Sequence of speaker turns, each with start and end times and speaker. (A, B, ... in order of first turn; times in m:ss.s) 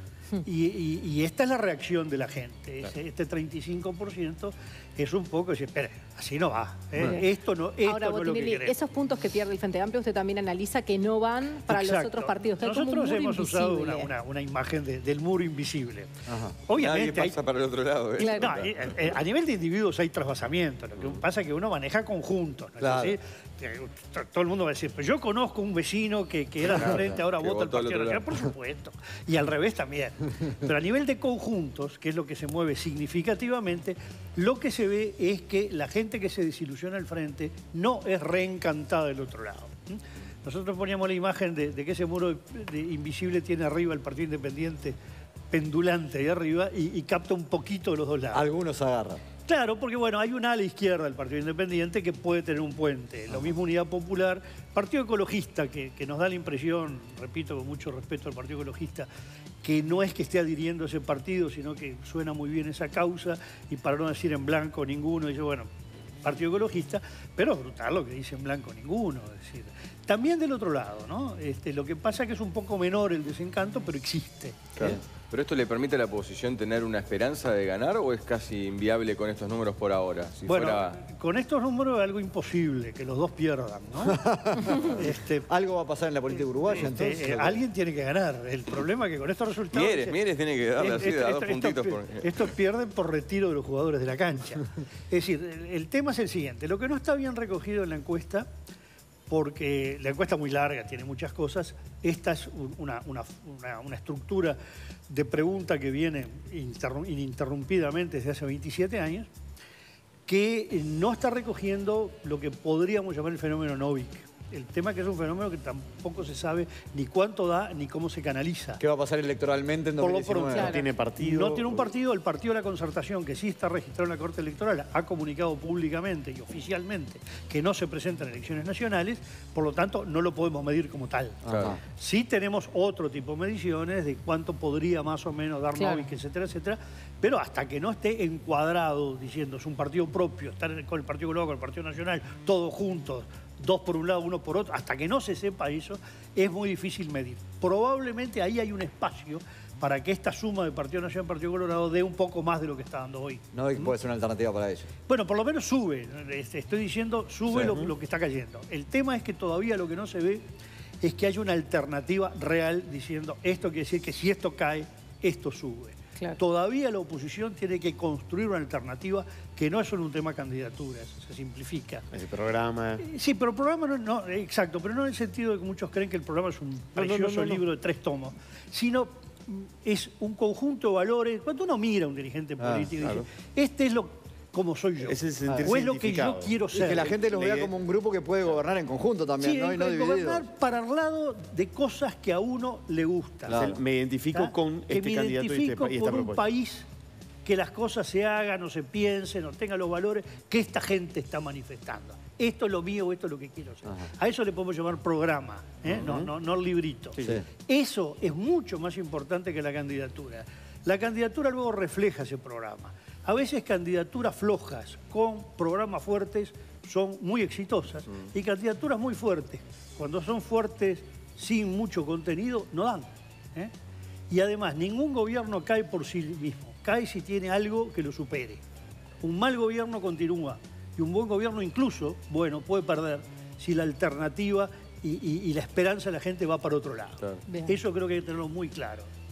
0:00.4-0:08.8 A
0:07.9-0:14.1 B
0:11.7-0:17.4 A
0:16.3-0:16.6 C
0:16.8-0:19.1 D
0:18.2-0:45.0 A
0:22.8-0:23.2 C
0:26.8-0:27.0 E
0:26.8-0:28.4 D
0:45.5-0:48.4 A
0:48.3-0:49.2 C
0:49.5-0:59.1 A
0:59.6-1:05.7 A
1:06.2-1:15.0 A
1:14.8-1:21.0 D
1:20.5-1:25.5 A
1:24.1-1:27.6 C
1:26.7-1:30.2 A
1:29.7-1:32.5 D
1:30.8-1:38.5 A
1:39.3-1:49.3 A
1:50.3-1:58.8 A
1:58.8-2:00.8 C
2:00.0-2:33.9 A
2:00.6-2:00.8 B
2:00.6-2:01.9 E
2:11.4-2:11.8 C
2:11.5-2:11.8 D
2:15.8-2:16.0 B
2:33.5-2:34.9 C
2:35.1-2:40.4 A
2:37.5-2:37.9 E
2:41.0-2:52.1 A
2:52.1-2:53.0 E
2:53.0-3:07.1 A
2:57.0-2:57.6 E
3:02.6-3:02.9 C
3:05.0-3:07.7 E
3:06.7-3:10.5 C
3:09.4-3:13.6 A
3:13.5-3:13.8 C
3:13.5-3:16.5 E
3:14.3-3:16.9 A
3:17.4-3:43.7 A
3:25.9-3:26.3 E
3:27.2-3:27.5 C
3:44.3-3:48.6 A
3:49.2-3:59.1 A